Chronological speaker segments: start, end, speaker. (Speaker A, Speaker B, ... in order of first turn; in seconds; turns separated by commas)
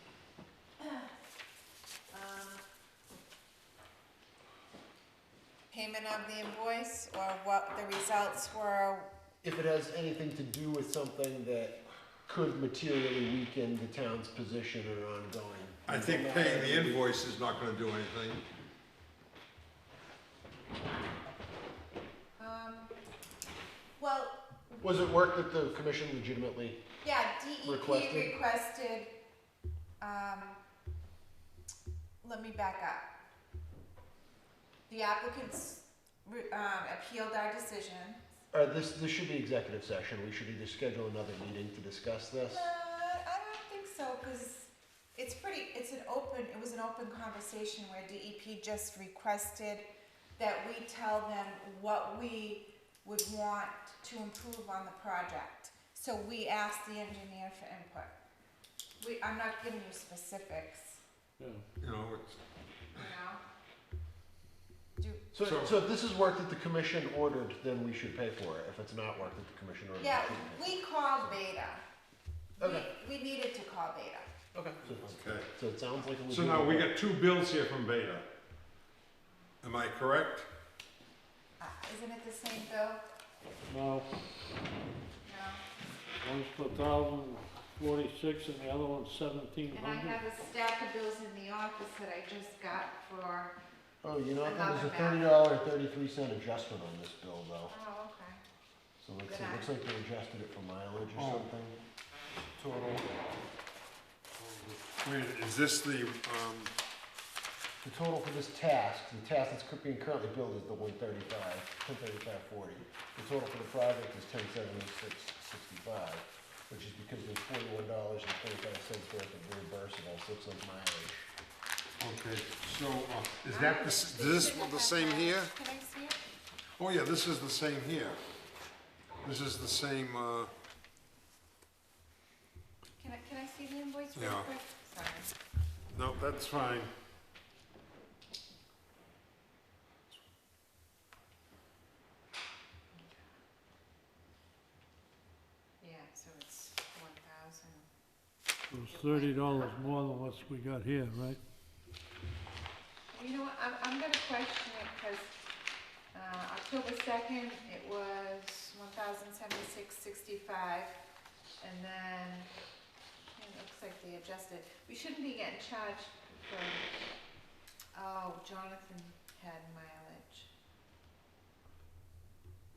Speaker A: 0.8-1.1, Speaker A: 2.1-2.6, Speaker A: 5.7-9.1, Speaker B: 9.4-17.0, Speaker C: 15.9-18.4, Speaker A: 22.4-23.0, Speaker A: 24.0-24.8, Speaker B: 24.8-26.8, Speaker A: 27.0-29.1, Speaker B: 27.6-28.4, Speaker A: 30.0-30.6, Speaker A: 32.2-33.1, Speaker A: 34.9-38.2, Speaker B: 38.5-42.7, Speaker A: 42.5-58.1, Speaker A: 59.0-61.0, Speaker D: 61.4-61.6, Speaker C: 61.8-62.4, Speaker A: 62.9-63.4, Speaker A: 65.0-65.3, Speaker B: 65.3-71.4, Speaker C: 65.4-65.7, Speaker A: 70.0-71.8, Speaker A: 72.6-74.3, Speaker B: 72.6-72.9, Speaker B: 74.5-76.9, Speaker C: 75.0-75.5, Speaker C: 76.3-78.3, Speaker C: 79.6-80.5, Speaker A: 81.6-83.0, Speaker D: 83.7-84.1, Speaker A: 85.2-85.7, Speaker D: 86.2-90.2, Speaker A: 89.7-93.5, Speaker B: 94.0-97.8, Speaker A: 94.4-95.3, Speaker A: 97.7-98.4, Speaker B: 99.0-101.8, Speaker A: 99.2-99.7, Speaker C: 101.2-101.5, Speaker C: 102.6-103.1, Speaker C: 104.4-106.7, Speaker B: 107.8-121.3, Speaker C: 122.0-125.5, Speaker A: 123.5-126.2, Speaker C: 126.8-128.2, Speaker C: 129.2-130.5, Speaker A: 133.0-135.3, Speaker C: 134.2-134.5, Speaker C: 135.9-136.9, Speaker A: 142.9-143.2, Speaker A: 145.8-147.9, Speaker D: 148.7-151.4, Speaker A: 148.9-149.8, Speaker A: 153.1-155.4, Speaker A: 156.1-161.0, Speaker A: 161.6-162.5, Speaker A: 163.3-166.9, Speaker A: 167.9-170.5